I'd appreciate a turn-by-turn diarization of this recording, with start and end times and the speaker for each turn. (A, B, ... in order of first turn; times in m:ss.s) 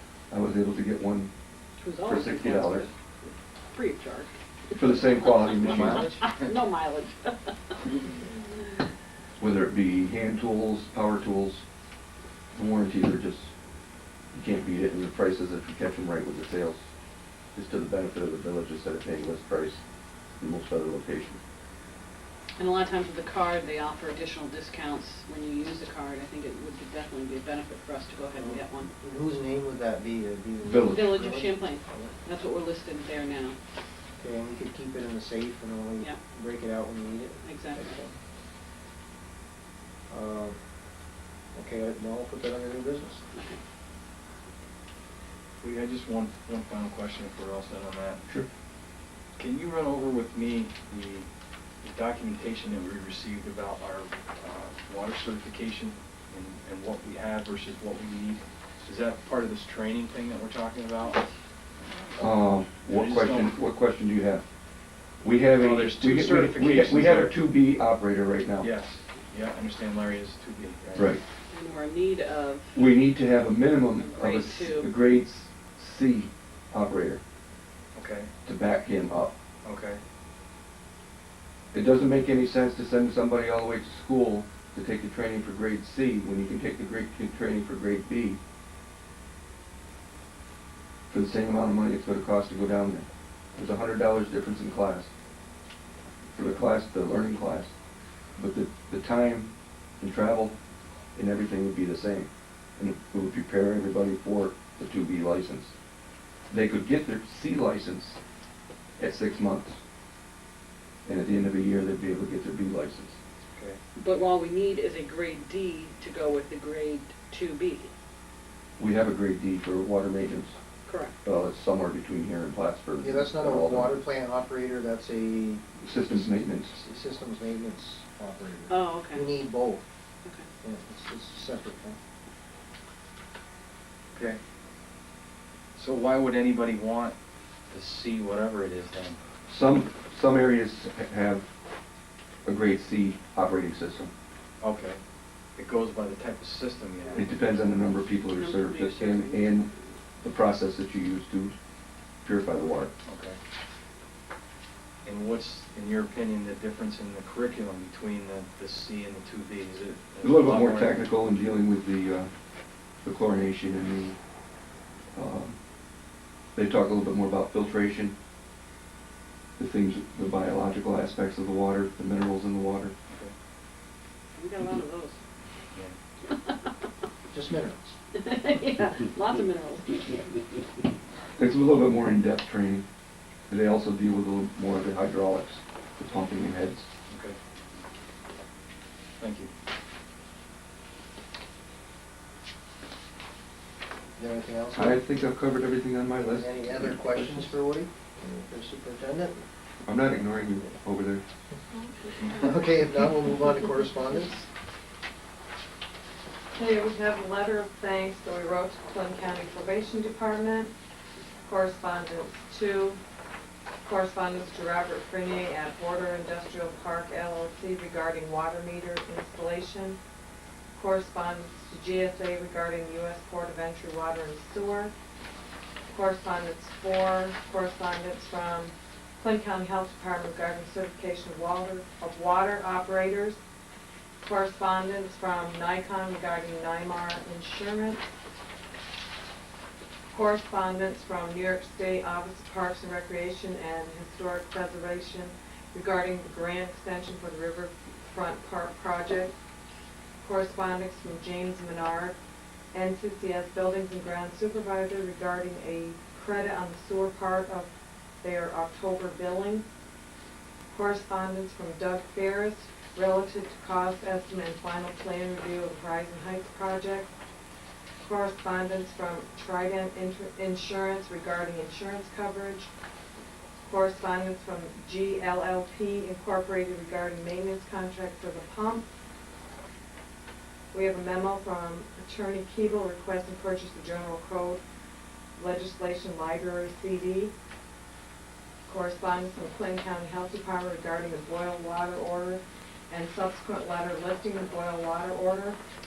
0:00.3-0:01.3 A
0:01.8-0:02.9 B
0:02.0-0:02.9 A
0:03.7-0:04.4 B
0:04.7-0:06.2 A
0:04.9-0:07.9 B
0:05.7-0:06.4 C
0:09.4-0:11.6 A
0:12.5-0:13.5 A
0:14.3-0:16.8 A
0:17.6-0:19.8 A
0:20.4-0:21.4 A
0:22.6-0:28.9 B
0:28.4-0:32.1 D
0:30.6-0:31.1 A
0:30.8-0:33.6 B
0:34.2-0:38.2 D
0:37.4-0:38.0 B
0:40.1-0:40.6 D
0:41.5-0:43.2 D
0:45.6-0:48.2 C
0:49.4-0:51.3 C
0:51.8-1:01.3 C
1:01.9-1:02.2 C
1:02.2-1:04.5 A
1:02.8-1:03.6 C
1:05.2-1:08.7 A
1:05.5-1:07.4 C
1:08.6-1:11.2 C
1:11.0-1:11.2 A
1:11.5-1:12.8 B
1:12.8-1:17.2 A
1:14.0-1:14.9 B
1:18.0-1:18.3 C
1:18.4-1:19.3 A
1:19.6-1:20.0 C
1:21.7-1:28.4 A
1:31.1-1:35.1 A
1:36.3-1:37.7 A
1:38.4-1:40.6 A
1:41.2-1:45.7 A
1:46.5-1:48.2 A
1:49.0-1:49.8 A
1:51.1-1:53.2 A
1:53.5-1:53.8 C
1:54.0-1:57.9 B
1:58.8-2:00.6 A
2:00.9-2:01.2 B
2:01.2-2:04.0 A
2:03.0-2:05.8 D
2:05.8-2:06.8 A
2:06.7-2:09.8 D
2:08.7-2:09.4 B
2:10.6-2:12.0 D
2:14.1-2:14.4 C
2:15.8-2:17.2 C
2:17.7-2:19.2 C
2:19.5-2:21.5 A
2:22.4-2:24.1 A
2:24.6-2:25.0 C
2:25.6-2:27.4 C
2:27.1-2:31.6 A
2:28.3-2:29.6 B
2:32.2-2:32.9 A
2:33.0-2:33.4 C
2:35.0-2:41.1 C
2:40.2-2:42.3 A
2:43.0-2:44.2 A
2:45.1-2:45.6 A
2:46.6-2:48.2 A
2:49.6-2:52.9 A
2:53.1-2:53.3 C
2:54.4-2:55.2 B
2:57.3-2:58.0 D
2:58.2-3:00.4 B
3:01.4-3:02.8 A
3:03.5-3:06.9 A
3:07.1-3:07.4 C
3:09.2-3:09.5 C
3:14.2-3:15.1 D
3:14.8-3:17.5 A
3:16.1-3:19.4 D
3:19.9-3:21.2 A
3:22.1-3:22.4 E
3:22.2-3:24.5 D
3:26.5-3:30.7 E
3:31.4-3:33.0 E
3:33.8-3:40.0 E
3:40.8-3:44.9 E
3:45.9-3:53.4 E
3:54.2-3:58.0 E
4:00.1-4:09.3 E
4:10.2-4:12.2 E
4:12.7-4:17.7 E
4:18.2-4:19.6 E
4:20.7-4:27.1 E
4:28.0-4:32.7 E
4:33.7-4:38.9 E
4:40.7-4:44.6 E
4:45.4-4:47.3 E
4:48.7-4:55.6 E